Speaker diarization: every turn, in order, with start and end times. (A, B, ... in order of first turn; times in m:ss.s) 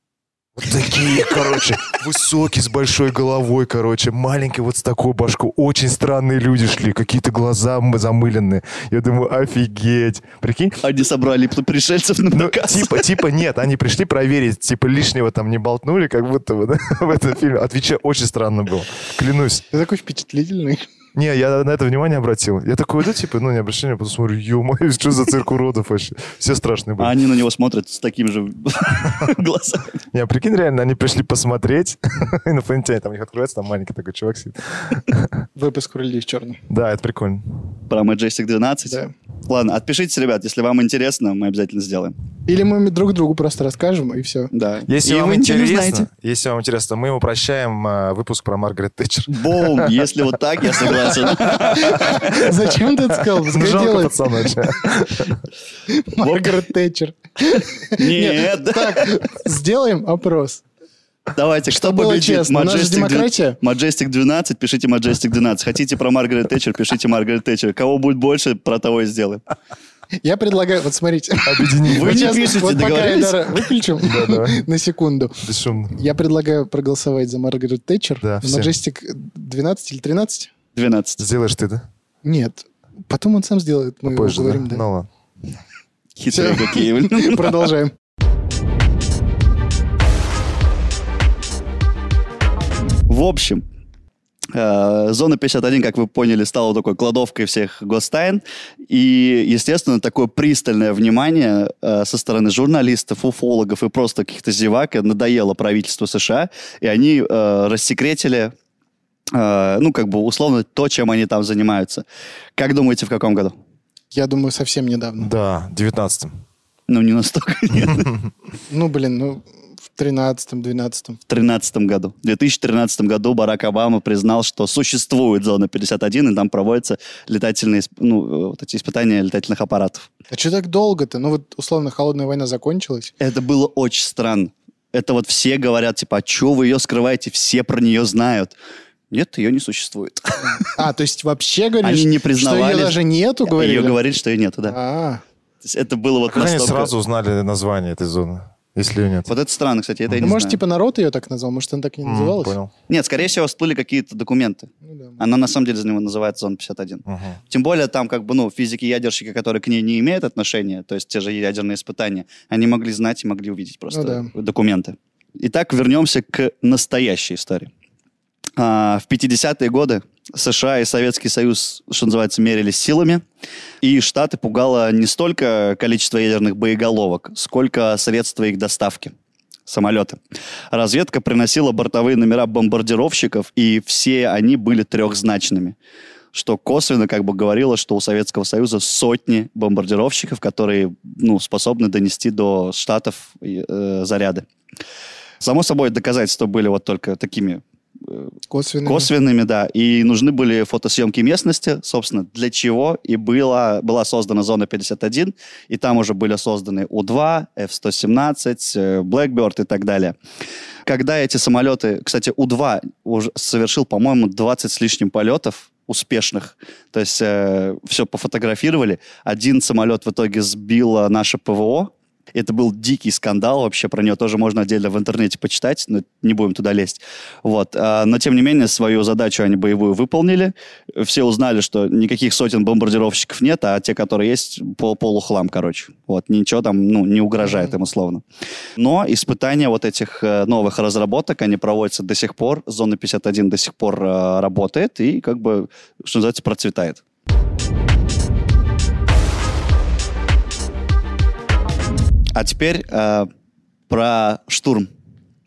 0:00.6-0:10.8 A
0:10.8-0:13.0 B
0:12.3-0:19.6 A
0:19.7-0:20.9 C
0:21.1-0:27.2 A
0:27.0-0:30.0 B
0:30.1-0:35.4 A
0:35.6-0:36.6 C
0:36.7-0:37.8 A
0:37.9-0:42.1 B
0:42.4-0:44.5 C
0:44.5-0:46.1 B
0:44.9-0:50.1 A
0:49.3-0:52.4 B
0:50.8-0:52.3 A
0:51.7-0:54.5 C
0:53.1-0:55.4 A
0:55.9-1:00.6 C
0:56.2-0:56.6 B
0:58.0-0:59.2 B
1:01.3-1:09.4 B
1:01.7-1:03.6 C
1:10.2-1:20.5 C
1:11.4-1:12.5 A
1:11.9-1:13.6 B
1:14.0-1:14.6 A
1:15.4-1:16.0 A
1:18.2-1:18.7 A
1:20.7-1:21.2 B
1:21.2-1:21.8 A
1:22.2-1:24.8 C
1:24.1-1:25.1 A
1:26.2-1:27.6 B
1:26.3-1:27.9 C
1:33.1-1:33.6 B
1:34.5-1:48.5 B
1:49.3-1:52.0 B
1:52.6-1:53.5 B
1:54.1-1:55.3 C
1:55.2-1:56.3 A
1:56.9-1:58.1 B
1:58.7-2:01.2 C
2:01.3-2:10.1 B
2:10.3-2:13.1 C
2:13.2-2:18.5 B
2:19.1-2:20.7 B
2:20.4-2:24.0 C
2:21.8-2:24.8 B
2:24.6-2:25.2 C
2:25.6-2:26.9 B
2:26.3-2:29.3 A
2:29.3-2:30.6 B
2:30.2-2:32.6 C
2:32.0-2:32.7 A
2:32.9-2:47.7 B
2:34.8-2:35.2 C
2:37.0-2:37.4 A
2:43.9-2:44.3 C
2:48.6-2:53.2 B
2:53.8-2:59.1 B
2:59.7-3:00.2 B
3:00.7-3:05.8 B
3:06.3-3:14.4 B
3:15.4-3:18.3 B
3:18.5-3:19.1 C
3:18.8-3:30.2 B
3:30.9-3:58.2 B
3:57.4-3:57.7 C
3:58.8-4:07.0 B
4:12.3-4:13.3 B
4:13.9-4:14.9 B